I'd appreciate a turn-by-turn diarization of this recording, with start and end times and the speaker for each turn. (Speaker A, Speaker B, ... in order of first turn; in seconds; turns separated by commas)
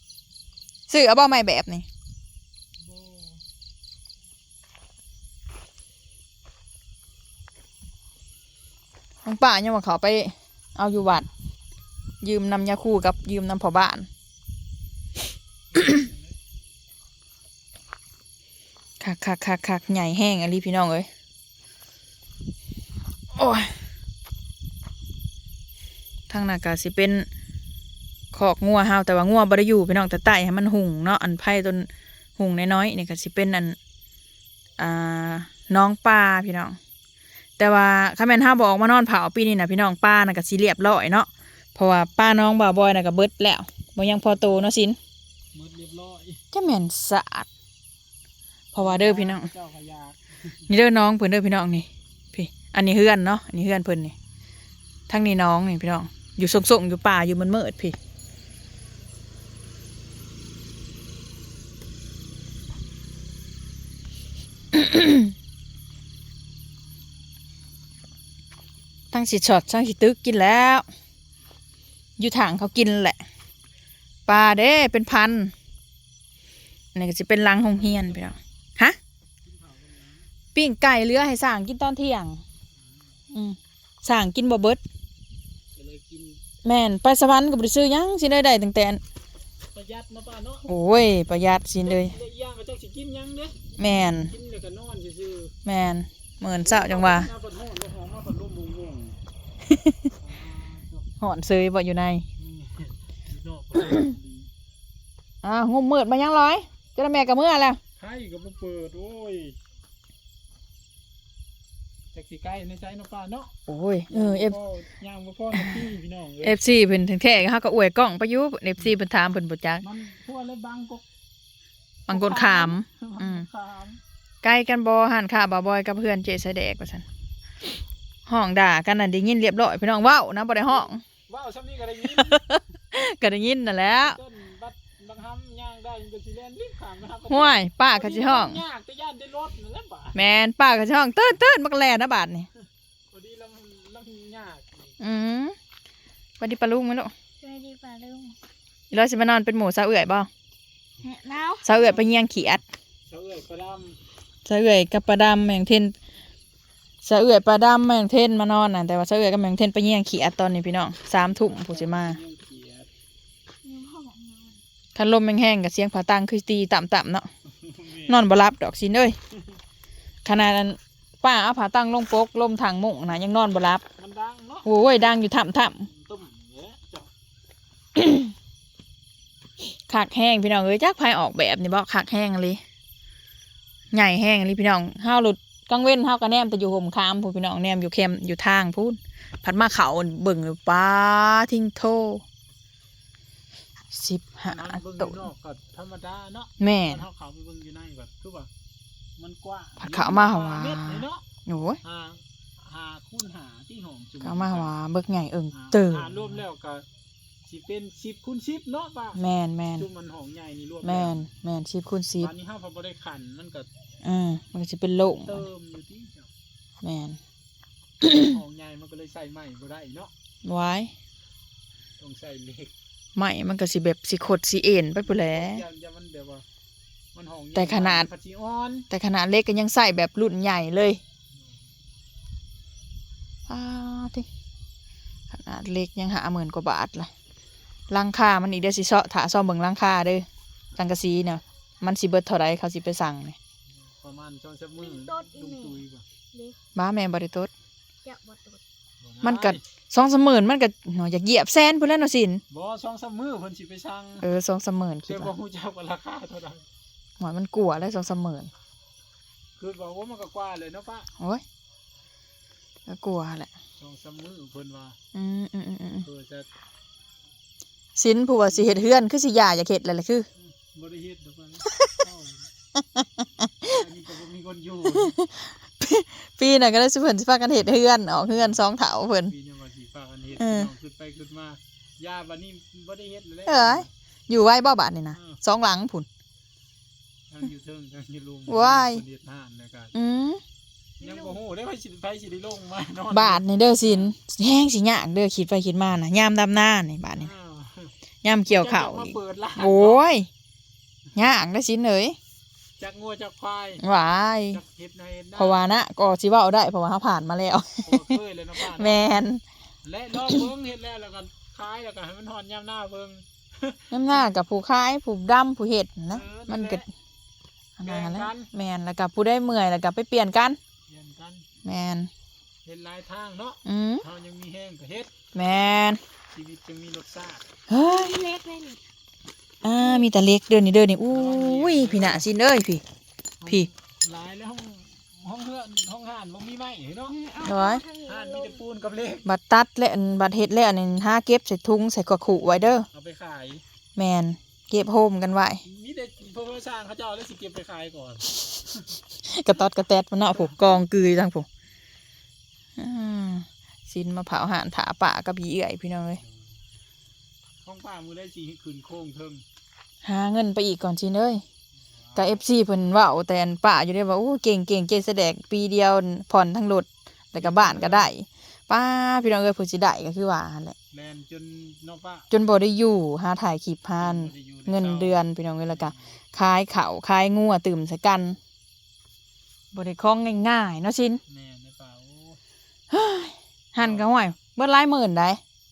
Speaker A: 0.9-1.9, Speaker B: 2.8-3.4, Speaker A: 9.2-11.3, Speaker A: 12.2-14.1, Speaker B: 15.7-16.4, Speaker A: 19.0-21.1, Speaker A: 23.3-23.8, Speaker A: 26.3-27.3, Speaker A: 28.3-33.8, Speaker A: 34.8-36.8, Speaker A: 37.6-45.0, Speaker B: 44.0-44.7, Speaker B: 45.5-46.4, Speaker A: 46.5-47.5, Speaker A: 48.7-49.5, Speaker B: 48.8-50.6, Speaker A: 50.7-54.1, Speaker A: 55.1-58.0, Speaker A: 64.7-65.3, Speaker A: 69.1-70.9, Speaker A: 72.2-73.2, Speaker A: 74.3-75.5, Speaker A: 77.0-79.0, Speaker B: 77.7-78.4, Speaker B: 79.4-80.3, Speaker A: 80.5-82.4, Speaker B: 82.8-83.2, Speaker A: 83.3-84.8, Speaker B: 85.8-86.4, Speaker A: 86.7-89.0, Speaker B: 89.7-90.7, Speaker A: 90.7-92.2, Speaker B: 91.8-95.6, Speaker A: 93.8-94.3, Speaker A: 95.7-97.3, Speaker B: 96.5-99.2, Speaker A: 99.7-100.1, Speaker B: 100.2-101.1, Speaker A: 101.2-102.2, Speaker B: 102.4-104.5, Speaker A: 105.4-107.8, Speaker B: 108.0-109.6, Speaker B: 112.1-113.5, Speaker A: 113.7-114.6, Speaker B: 114.1-116.6, Speaker A: 115.5-115.9, Speaker A: 116.4-119.8, Speaker B: 119.8-121.0, Speaker A: 122.1-123.5, Speaker B: 122.1-124.0, Speaker A: 124.4-127.0, Speaker A: 128.3-131.0, Speaker B: 130.7-132.6, Speaker A: 132.1-134.2, Speaker B: 133.8-140.2, Speaker A: 137.3-138.6, Speaker A: 140.2-142.5, Speaker B: 143.1-144.9, Speaker A: 145.0-145.6, Speaker A: 146.4-147.1, Speaker C: 147.4-148.4, Speaker A: 148.9-150.3, Speaker C: 151.0-151.7, Speaker A: 151.6-152.6, Speaker B: 151.7-154.0, Speaker A: 154.5-155.9, Speaker A: 157.0-162.2, Speaker B: 161.1-162.9, Speaker C: 163.6-164.6, Speaker A: 164.9-167.3, Speaker B: 167.5-168.2, Speaker A: 168.1-169.2, Speaker A: 170.2-173.8, Speaker B: 174.0-174.7, Speaker A: 174.7-175.9, Speaker B: 175.8-177.1, Speaker A: 178.0-178.3, Speaker A: 179.9-182.6, Speaker A: 183.9-192.2, Speaker A: 193.9-195.2, Speaker B: 194.5-198.5, Speaker A: 196.6-197.1, Speaker B: 199.2-201.3, Speaker A: 199.8-201.8, Speaker B: 201.8-204.7, Speaker A: 204.2-206.4, Speaker B: 205.5-206.9, Speaker B: 207.5-209.2, Speaker A: 209.2-209.9, Speaker B: 209.8-211.2, Speaker A: 210.8-212.3, Speaker B: 212.2-213.7, Speaker A: 214.0-215.4, Speaker B: 215.2-216.3, Speaker A: 216.8-217.2, Speaker B: 218.0-220.1, Speaker A: 218.0-218.3, Speaker A: 220.4-220.9, Speaker B: 222.0-222.7, Speaker A: 223.2-225.6, Speaker B: 225.0-226.4, Speaker B: 227.1-228.9, Speaker A: 227.6-228.1, Speaker A: 228.9-231.0, Speaker B: 231.3-231.6, Speaker A: 233.5-234.3, Speaker A: 235.3-237.1, Speaker A: 237.9-240.3, Speaker A: 240.8-243.4, Speaker B: 243.8-246.1, Speaker C: 244.9-245.7, Speaker A: 246.8-247.5, Speaker C: 248.0-248.6, Speaker B: 249.0-249.6, Speaker A: 249.2-252.4, Speaker B: 252.5-254.3, Speaker A: 254.2-255.3, Speaker B: 255.1-256.7, Speaker A: 257.2-258.5, Speaker B: 259.6-261.1, Speaker A: 262.9-263.5, Speaker B: 263.8-265.0, Speaker A: 265.1-266.1, Speaker B: 266.0-266.5, Speaker A: 268.0-270.3, Speaker B: 268.5-269.0, Speaker B: 270.4-272.5, Speaker A: 272.8-273.1, Speaker B: 273.6-275.1, Speaker A: 274.9-279.3, Speaker B: 278.3-278.6, Speaker B: 279.2-283.9, Speaker A: 280.4-280.7, Speaker A: 283.5-286.1, Speaker B: 285.1-285.4, Speaker B: 287.3-289.9, Speaker A: 288.5-289.0, Speaker A: 289.9-290.4, Speaker B: 291.0-294.1, Speaker A: 293.1-297.3, Speaker B: 297.2-297.9, Speaker A: 298.2-300.3, Speaker B: 298.5-300.0, Speaker A: 301.1-302.2, Speaker B: 302.8-303.8, Speaker A: 303.8-304.6, Speaker B: 304.5-305.7, Speaker A: 305.4-309.4, Speaker B: 307.8-309.2, Speaker B: 309.8-314.3, Speaker A: 310.1-310.5, Speaker A: 313.9-316.9, Speaker B: 316.1-316.9, Speaker A: 317.8-320.6, Speaker B: 317.8-318.5, Speaker B: 320.9-321.5, Speaker A: 321.6-322.1, Speaker B: 322.6-325.1, Speaker A: 323.6-324.0, Speaker A: 325.4-326.0, Speaker B: 326.3-327.5, Speaker A: 327.7-328.2, Speaker C: 327.7-328.8, Speaker A: 329.6-332.8, Speaker B: 331.1-332.3, Speaker B: 333.4-337.3, Speaker C: 337.1-338.6, Speaker A: 337.4-337.8, Speaker B: 338.0-339.3, Speaker A: 339.3-342.9, Speaker B: 342.4-343.6, Speaker A: 344.0-345.6, Speaker B: 345.6-349.0, Speaker A: 349.2-351.5, Speaker B: 350.3-350.6, Speaker A: 352.8-356.2, Speaker B: 356.2-356.6, Speaker B: 357.6-359.4, Speaker A: 360.0-361.4, Speaker B: 362.0-362.4, Speaker A: 362.2-370.8, Speaker B: 367.4-368.1, Speaker B: 370.9-372.3, Speaker A: 372.3-378.4, Speaker B: 374.0-376.2, Speaker A: 379.7-381.2, Speaker B: 381.3-382.4, Speaker A: 382.9-385.4, Speaker B: 383.8-384.1